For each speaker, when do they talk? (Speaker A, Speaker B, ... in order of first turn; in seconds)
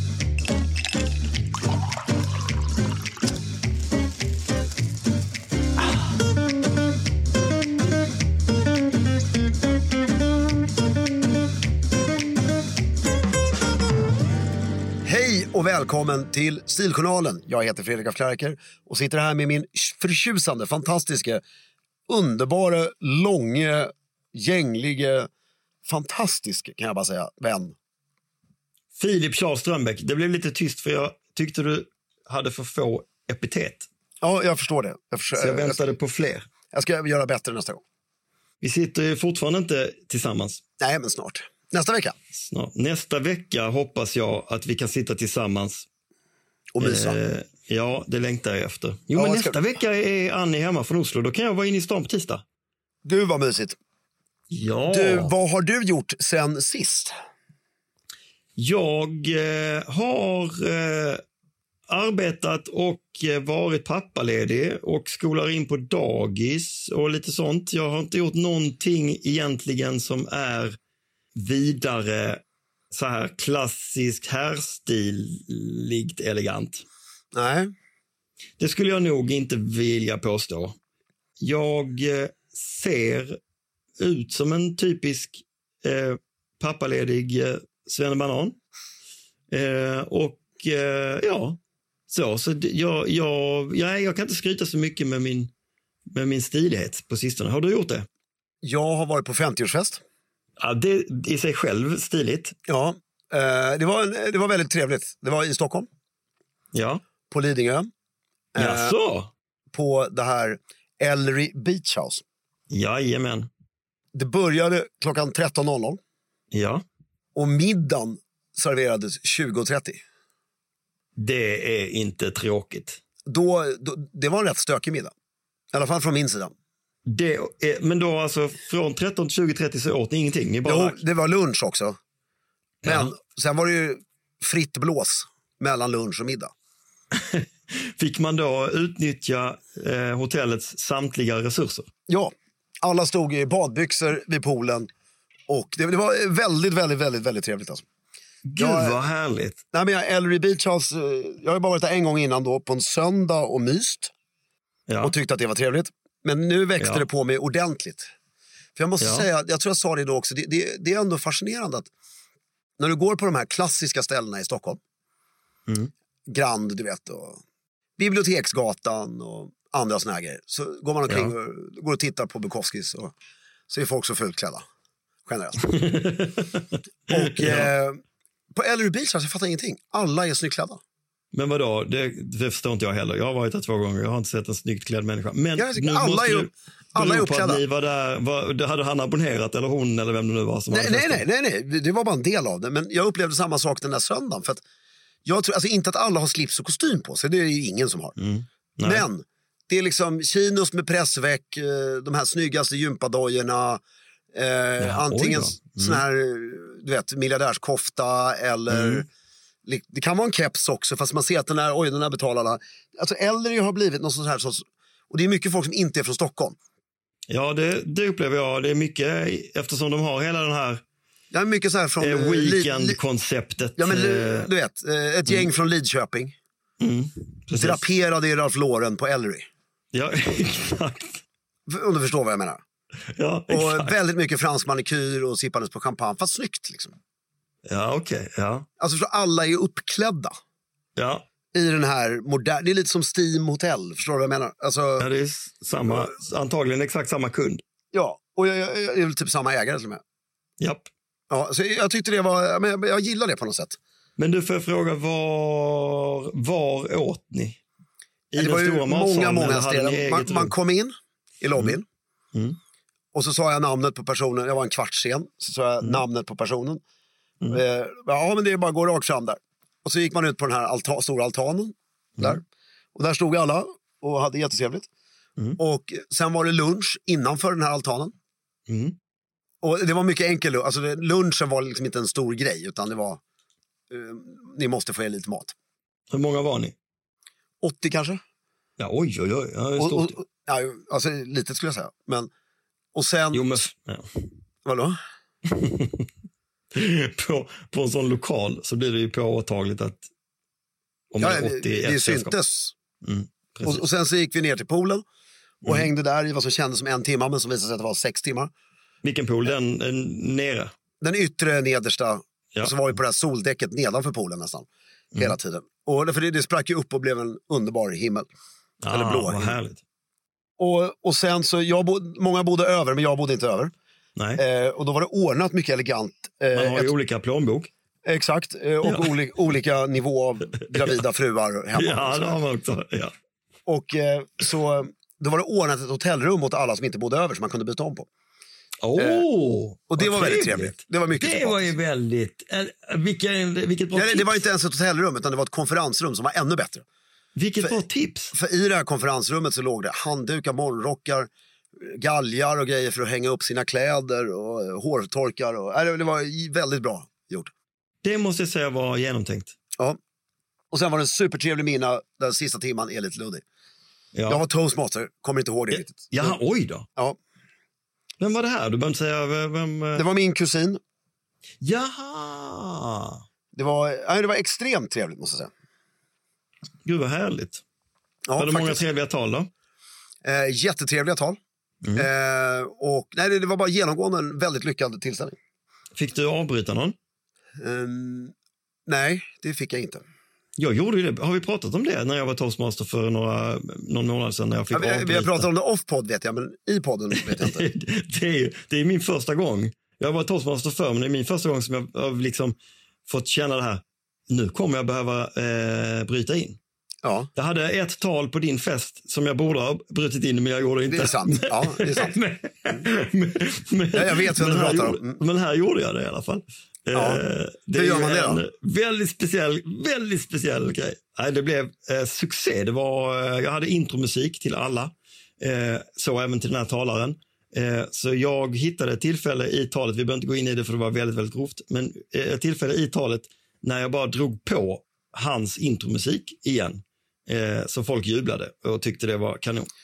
Speaker A: 15.0-21.4, 22.1-25.3, 25.9-27.8, 34.2-35.9, 36.7-37.8, 40.8-42.2, 46.8-47.2, 49.1-49.6, 53.0-53.8, 54.9-57.1, 77.3-77.7, 98.6-100.0, 102.7-105.9, 107.3-107.9, 108.5-109.0, 109.7-112.2, 114.1-116.0, 117.3-120.0, 123.3-125.1, 125.7-126.5, 130.7-132.0, 132.8-136.5, 142.1-144.9, 145.5-147.8, 148.6-149.0, 149.7-154.1, 155.0-158.1, 158.8-161.9, 162.8-164.8, 166.3-167.4, 168.0-173.1, 173.7-174.6, 175.3-175.7, 177.1-178.0, 178.5-180.8, 185.6-187.6, 190.7-194.6, 195.2-198.2, 198.8-203.8, 204.3-209.1, 209.7-216.6, 221.3-223.0, 223.8-226.4, 227.6-229.5, 231.7-232.6, 233.5-236.9, 238.8-240.3, 241.5-245.1, 247.9-250.0, 251.3-253.8, 258.4-261.9, 263.1-266.8, 267.5-272.4, 272.9-274.9, 275.6-278.1, 279.6-283.2, 283.9-285.6, 287.6-288.2, 289.8-292.3, 292.9-293.6, 294.6-295.0, 301.2-302.8, 303.6-305.0, 305.6-308.5, 311.0-318.3, 318.9-319.6, 320.6-323.7, 324.4-326.9, 328.1-332.4, 333.7-338.1, 339.0-339.2, 339.9-341.7, 343.9-346.9, 348.3-351.3, 351.8-357.5, 360.7-363.4, 364.3-366.4, 370.0-370.8, 373.5-375.5, 378.3-378.9, 380.2-381.4, 381.9-385.4, 387.6-388.3, 388.9-390.0, 394.7-397.7, 407.0-407.3, 410.9-412.1, 413.9-415.2, 416.9-417.2, 417.7-418.4
Speaker B: 28.9-33.9, 35.4-36.5, 38.6-40.6, 42.3-45.9, 46.8-52.4, 54.5-55.3, 58.6-61.2, 61.9-70.8, 71.3-76.8, 78.6-80.8, 81.4-83.4, 84.0-88.6, 89.5-95.5, 96.1-98.1, 100.6-102.5, 106.7-107.0, 108.6-109.3, 112.7-113.5, 116.5-116.8, 121.2-123.0, 127.0-131.0, 132.8-133.1, 137.1-141.9, 148.4-149.6, 154.9-155.1, 156.8-157.1, 159.0-159.3, 175.6-177.7, 181.3-191.2, 198.2-199.1, 204.8-206.0, 208.7-209.0, 217.3-220.8, 222.0-224.5, 226.8-227.8, 229.9-231.2, 233.2-233.9, 237.7-238.7, 241.0-241.3, 245.0-247.6, 250.6-250.9, 254.2-257.6, 258.3-260.5, 278.7-279.0, 286.1-286.8, 288.8-290.1, 293.3-294.1, 295.5-296.1, 296.7-300.1, 301.1-302.4, 303.0-303.9, 305.6-305.9, 309.0-310.7, 318.8-319.8, 324.2-324.4, 326.5-327.7, 328.8-329.1, 331.8-333.1, 338.8-344.4, 347.4-348.3, 358.0-359.6, 364.1-364.4, 365.7-366.9, 368.2-370.0, 371.6-373.2, 376.9-377.6, 378.4-379.5, 385.9-387.0, 390.6-395.5, 397.2-402.6, 403.1-406.6, 407.4-439.7